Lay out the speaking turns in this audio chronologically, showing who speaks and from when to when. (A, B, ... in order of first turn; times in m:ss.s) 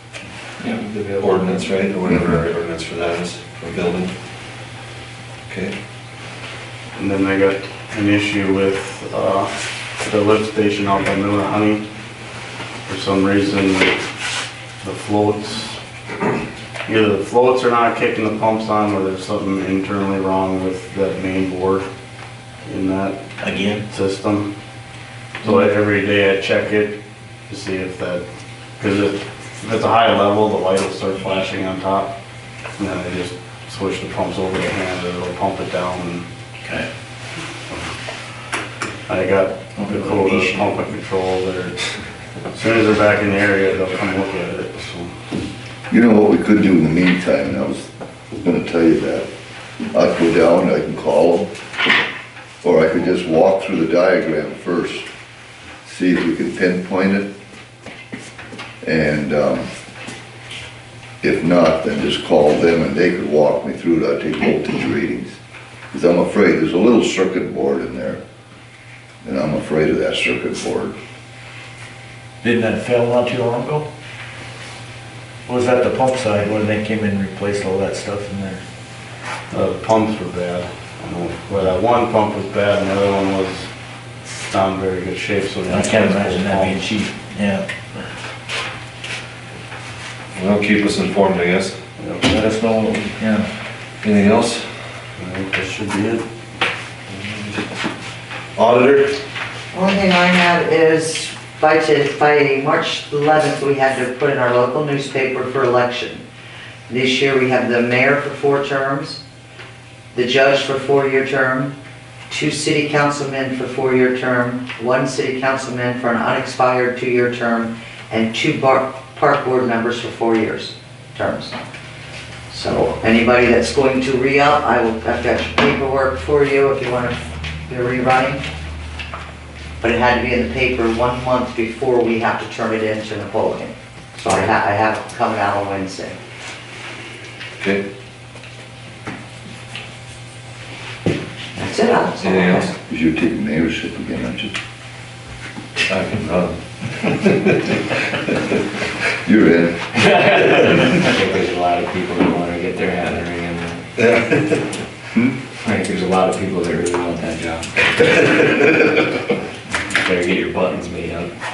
0:00.6-0:01.6 A
0:01.2-0:04.1 B
0:02.0-0:02.4 C
0:05.5-0:05.7 B
0:06.9-0:11.8 D
0:12.9-0:14.0 D
0:14.8-0:15.8 D
0:16.8-0:21.9 D
0:22.6-0:23.2 D
0:23.4-0:23.8 E
0:23.9-0:24.5 D
0:25.4-0:28.2 D
0:28.8-0:32.1 D
0:32.8-0:36.2 D
0:39.1-0:41.8 D
0:39.8-0:40.7 E
0:42.5-0:45.1 D
0:45.9-0:47.9 C
0:48.4-0:49.3 C
0:49.9-0:51.5 C
0:52.6-0:55.1 C
0:55.8-0:57.3 C
0:58.8-0:59.7 C
1:01.2-1:05.4 C
1:05.9-1:08.2 C
1:09.2-1:11.0 C
1:12.4-1:13.9 E
1:15.5-1:18.6 E
1:19.5-1:23.7 D
1:24.4-1:26.9 D
1:25.6-1:27.6 E
1:30.3-1:31.8 B
1:32.0-1:32.4 D
1:32.2-1:33.5 E
1:34.0-1:34.6 B
1:35.2-1:36.2 D
1:37.1-1:37.6 B
1:38.6-1:39.2 B
1:39.7-1:46.2 F
1:46.9-1:49.2 F
1:50.1-1:51.7 F
1:52.3-2:01.6 F
2:02.5-2:08.4 F
2:09.8-2:16.2 F
2:17.6-2:17.8 B
2:21.6-2:22.6 F
2:22.2-2:22.8 B
2:22.9-2:24.5 C
2:25.9-2:27.8 B
2:29.2-2:29.8 C
2:30.0-2:33.8 A
2:34.0-2:34.7 B
2:35.6-2:38.2 A
2:38.0-2:38.8 B
2:39.9-2:41.3 A